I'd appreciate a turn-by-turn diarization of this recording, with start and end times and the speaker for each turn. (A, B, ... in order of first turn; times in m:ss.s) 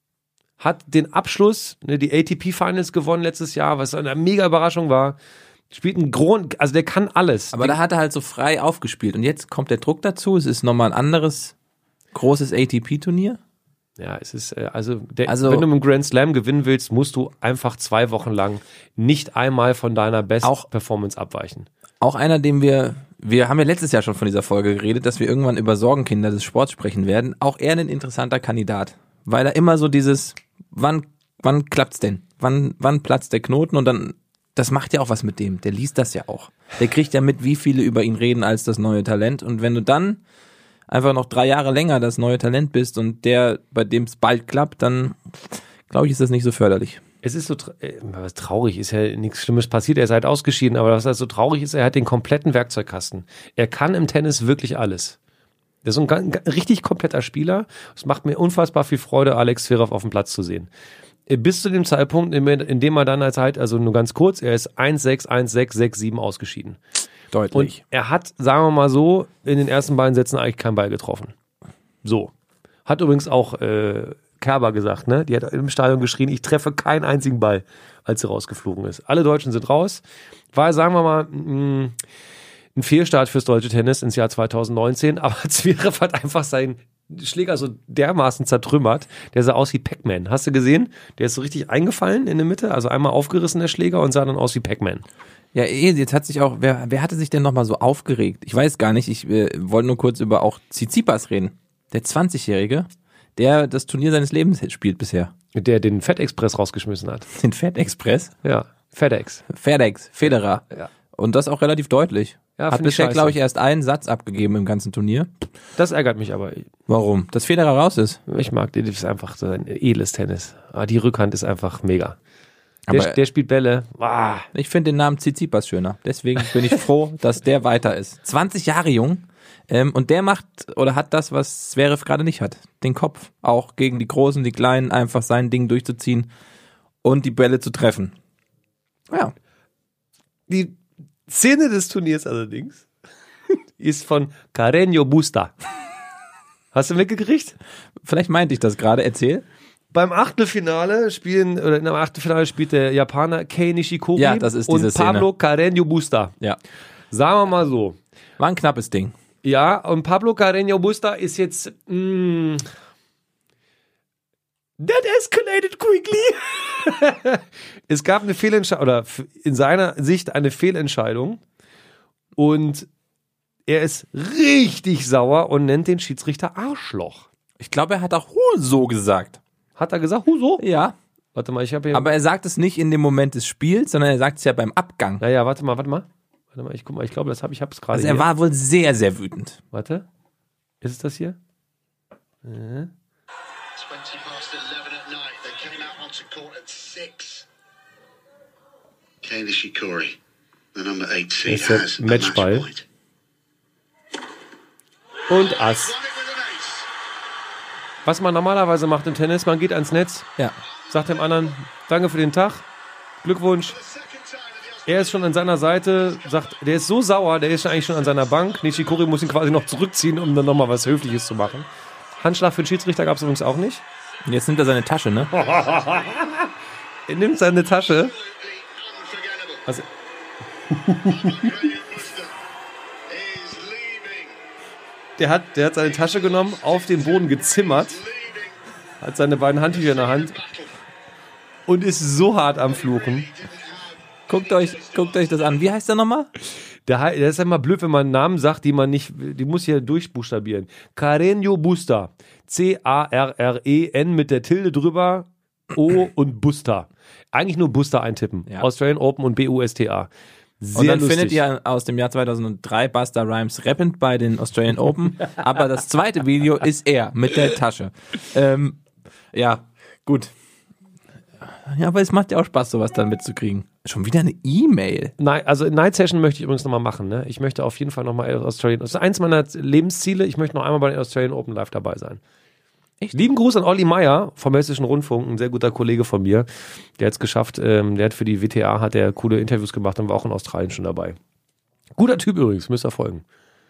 0:00.6-0:05.2 A
0:05.7-0:07.8 A
0:07.5-0:11.5 B
0:12.1-0:13.4 B
0:14.0-0:21.7 A
0:15.2-0:15.7 B
0:20.4-0:20.7 B
0:22.0-0:40.2 B
0:40.9-0:47.0 B
0:47.2-0:55.2 A
0:55.8-1:00.7 A
1:01.3-1:06.8 A
1:07.3-1:07.8 B
1:07.5-1:11.3 A
1:12.0-1:12.3 A
1:12.8-1:20.0 A
1:20.5-1:22.0 A
1:22.8-1:35.0 A
1:35.5-1:45.3 B
1:45.5-1:47.3 A
1:47.3-1:48.3 B
1:48.4-1:49.4 A
1:49.5-1:55.3 B
1:52.6-1:53.4 A
1:55.8-1:56.7 A
1:56.9-1:58.2 B
1:58.3-2:02.2 A
2:02.9-2:03.2 B
2:02.9-2:04.5 A
2:04.5-2:16.3 B
2:17.0-2:18.1 B
2:20.5-2:22.9 A
2:23.8-2:25.5 A
2:26.7-2:27.6 A
2:28.0-2:29.4 B
2:29.9-2:36.3 A
2:34.2-2:35.3 B
2:37.1-2:38.0 A
2:38.4-2:39.1 B
2:39.4-2:42.7 A
2:44.8-2:51.4 A
2:52.4-2:52.9 A
2:53.7-2:57.3 A
2:57.6-2:59.4 B
2:59.8-3:00.6 A
3:00.6-3:01.0 B
3:01.3-3:02.1 A
3:01.9-3:05.2 B
3:05.2-3:08.3 A
3:07.9-3:09.6 B
3:09.7-3:10.0 A
3:10.8-3:11.4 A
3:12.4-3:12.9 A
3:13.8-3:17.5 C
3:19.2-3:20.2 C
3:20.7-3:22.8 C
3:21.5-3:22.7 A
3:25.3-3:26.0 A
3:25.5-3:26.9 C
3:28.0-3:30.3 A
3:30.9-3:31.5 C
3:30.9-3:32.6 A
3:33.2-3:33.8 A
3:33.7-3:36.3 C
3:34.8-3:41.7 A
3:42.2-3:43.8 A
3:44.2-3:45.3 B
3:45.3-3:46.5 A
3:45.6-3:46.2 C
3:47.1-3:48.1 A
3:47.9-3:49.7 C
3:50.7-3:51.5 A
3:51.0-3:52.3 C
3:53.1-3:54.4 C
3:55.2-3:58.0 A
3:55.9-3:58.6 C
3:59.0-4:00.4 A
3:59.7-4:00.7 C
4:01.7-4:03.3 A
4:02.7-4:05.3 C
4:04.3-4:06.3 B
4:06.8-4:20.1 A
4:20.6-4:21.4 A
4:20.7-4:28.8 B
4:29.3-4:30.3 B
4:31.4-4:35.1 B
4:35.2-4:42.2 A
4:43.1-4:46.5 A
4:47.0-4:51.2 A
4:52.0-4:53.2 A